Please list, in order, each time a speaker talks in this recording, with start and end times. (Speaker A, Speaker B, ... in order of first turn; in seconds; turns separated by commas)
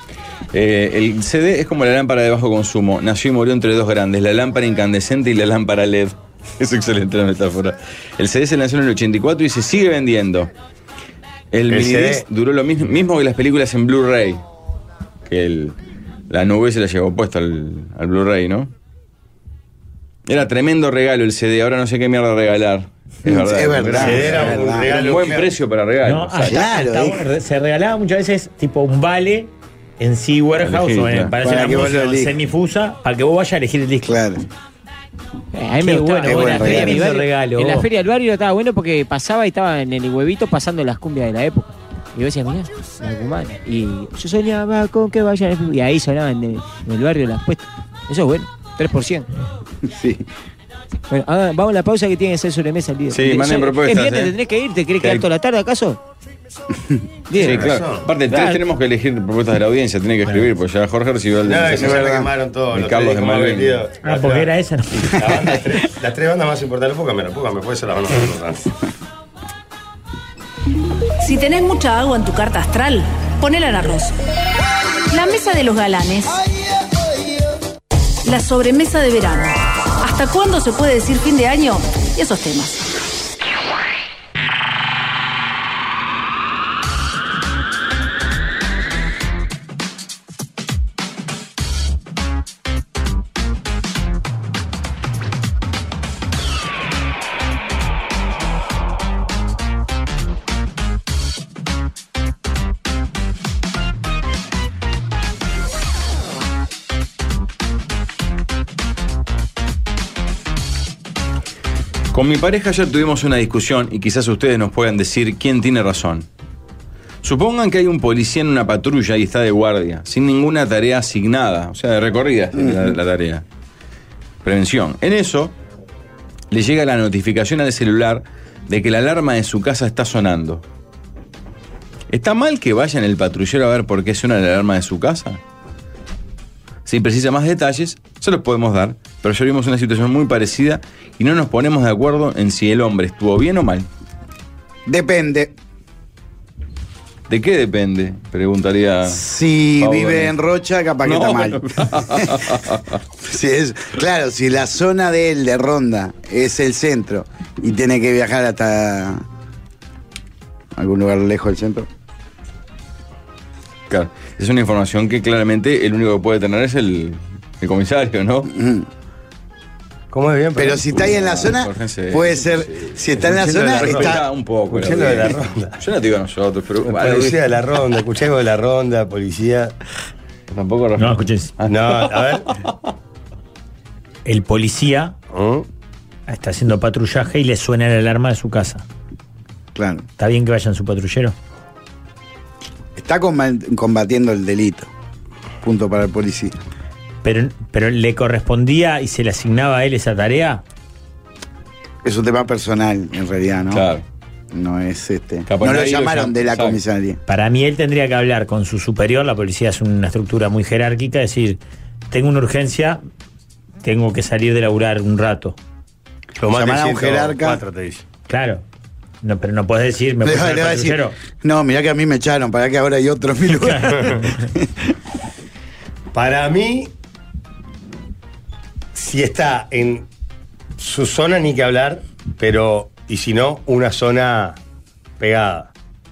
Speaker A: 0.5-10.5, Speaker A: 11.5-14.4, Speaker B: 11.7-12.2, Speaker A: 15.3-15.8, Speaker A: 16.3-18.7, Speaker A: 20.3-26.6, Speaker C: 23.2-24.9, Speaker B: 24.0-25.5, Speaker D: 26.1-34.2, Speaker C: 26.5-27.2, Speaker A: 30.6-31.3, Speaker C: 31.4-32.4, Speaker C: 34.0-34.4, Speaker E: 35.5-49.3, Speaker D: 35.8-37.9, Speaker C: 36.2-37.0, Speaker C: 49.8-50.2, Speaker E: 51.1-56.0, Speaker A: 53.1-54.4, Speaker A: 55.0-55.3, Speaker E: 57.3-57.7, Speaker A: 57.4-62.1, Speaker B: 57.4-58.0, Speaker E: 58.3-58.6, Speaker B: 61.5-64.5, Speaker C: 61.7-62.3, Speaker A: 62.7-63.8, Speaker D: 64.0-65.2, Speaker B: 65.0-68.7, Speaker F: 71.2-74.1, Speaker F: 75.1-76.4, Speaker F: 78.2-82.9, Speaker A: 112.1-116.3, Speaker A: 117.2-123.5, Speaker C: 122.6-122.9, Speaker A: 124.4-125.5, Speaker A: 126.5-130.6, Speaker A: 132.1-135.4, Speaker A: 136.9-143.9, Speaker C: 144.9-145.5, Speaker A: 147.3-149.2, Speaker C: 149.1-152.6, Speaker A: 149.8-150.3, Speaker A: 151.0-153.0, Speaker C: 153.2-159.2, Speaker C: 160.8-161.9, Speaker A: 163.9-168.5, Speaker C: 168.5-168.9, Speaker B: 170.1-171.2, Speaker C: 170.6-174.2, Speaker A: 171.3-172.4, Speaker B: 173.2-175.8, Speaker A: 173.3-177.4, Speaker B: 176.8-179.7, Speaker A: 180.5-182.4, Speaker D: 181.0-181.5, Speaker B: 181.7-182.5, Speaker D: 184.3-185.1, Speaker B: 185.3-185.7, Speaker D: 186.3-188.8, Speaker C: 189.8-190.1, Speaker D: 190.2-191.3, Speaker C: 193.0-194.9, Speaker C: 195.6-196.6, Speaker D: 197.2-200.6, Speaker C: 202.0-203.8, Speaker A: 203.7-204.0, Speaker C: 204.5-207.2, Speaker A: 205.5-206.8, Speaker D: 207.3-211.6, Speaker D: 212.1-213.0, Speaker D: 213.8-215.6, Speaker B: 216.4-218.0, Speaker C: 216.5-217.6, Speaker D: 218.3-218.6, Speaker D: 219.2-221.2, Speaker C: 220.2-224.7, Speaker D: 223.6-224.5, Speaker B: 226.1-226.9, Speaker B: 228.9-230.1, Speaker B: 230.8-234.6, Speaker B: 235.2-235.7